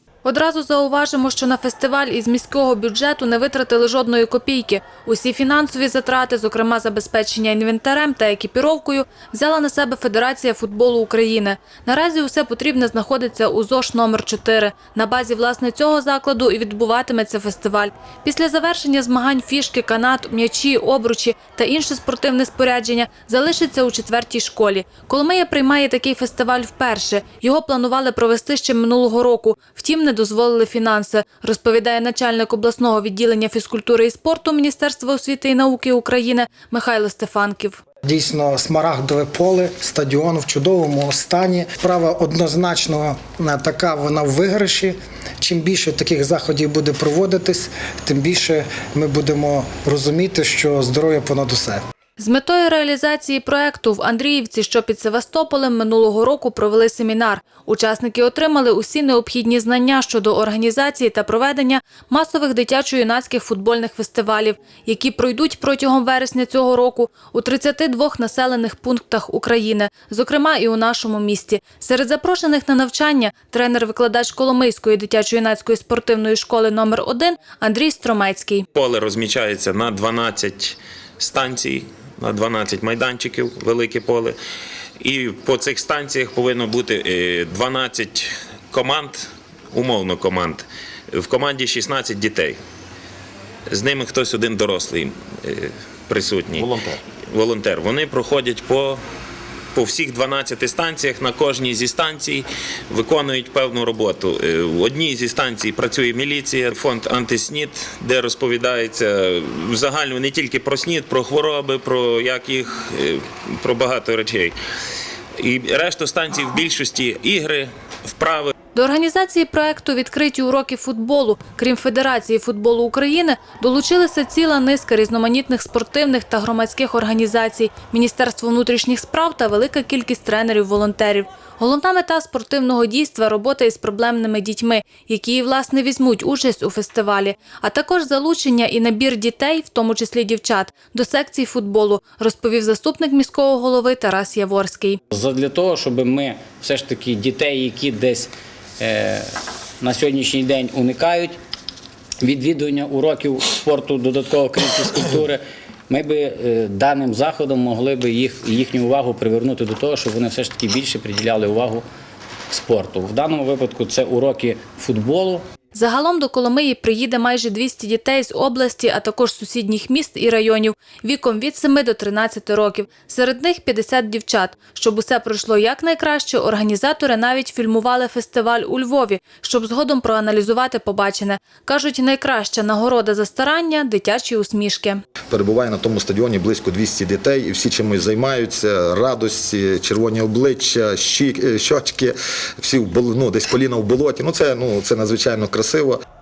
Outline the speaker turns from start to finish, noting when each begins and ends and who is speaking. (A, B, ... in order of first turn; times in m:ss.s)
0:00.2-0:37.8 A
0:38.0-0:51.8 B
0:52.2-1:18.6 A
1:18.7-1:24.3 C
1:25.0-1:32.6 C
1:33.7-1:36.7 C
1:37.3-1:39.0 C
1:39.7-1:54.5 C
1:55.4-1:58.5 C
1:58.7-2:25.0 A
2:25.1-2:31.4 D
2:32.2-2:41.8 D
2:42.5-2:45.4 D
2:45.7-3:05.0 A
3:05.3-3:16.0 E